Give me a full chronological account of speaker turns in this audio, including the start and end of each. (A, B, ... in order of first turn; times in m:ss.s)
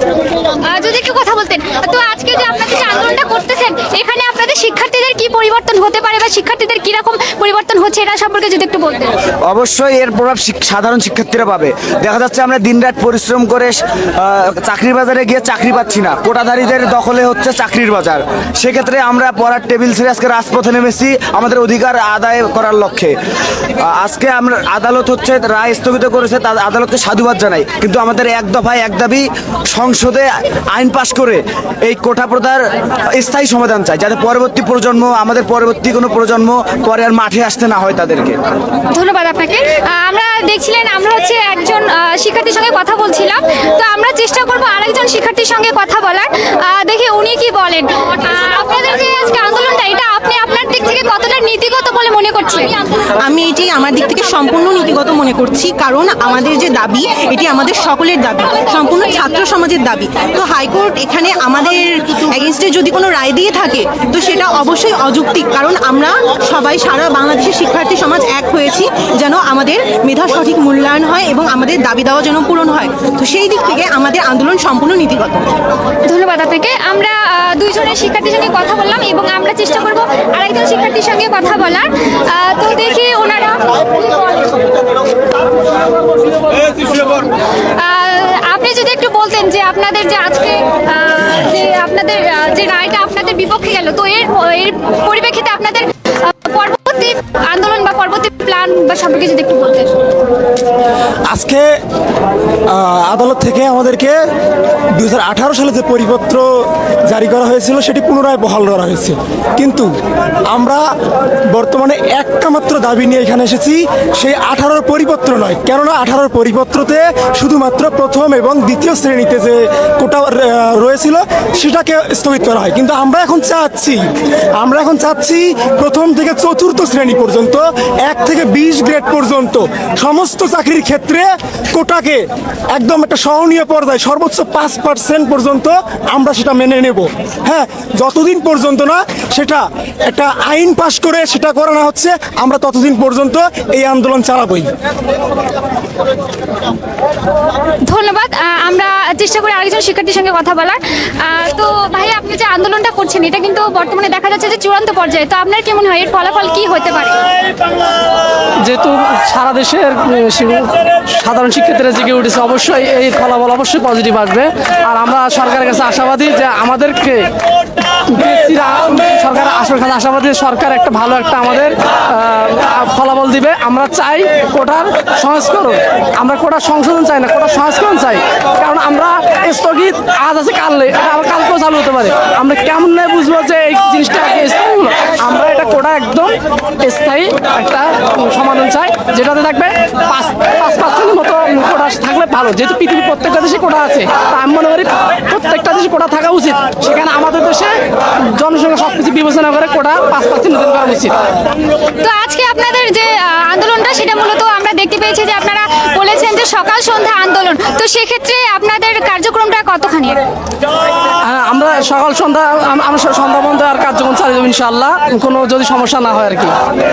0:00.6-0:09.2 A
0:09.5-0:23.2 B
0:23.8-0:32.6 B
0:33.2-0:38.4 B
0:38.9-0:52.8 A
0:53.2-1:15.5 C
1:16.1-1:24.7 A
1:26.8-1:39.9 A
1:41.3-1:41.7 D
1:42.7-1:44.2 D
1:44.9-1:49.9 D
1:50.5-1:50.9 D
1:51.5-2:24.7 D
2:27.8-2:37.2 A
2:38.6-2:47.3 E
2:48.1-3:21.2 E
3:22.0-3:30.2 A
3:31.2-3:36.6 E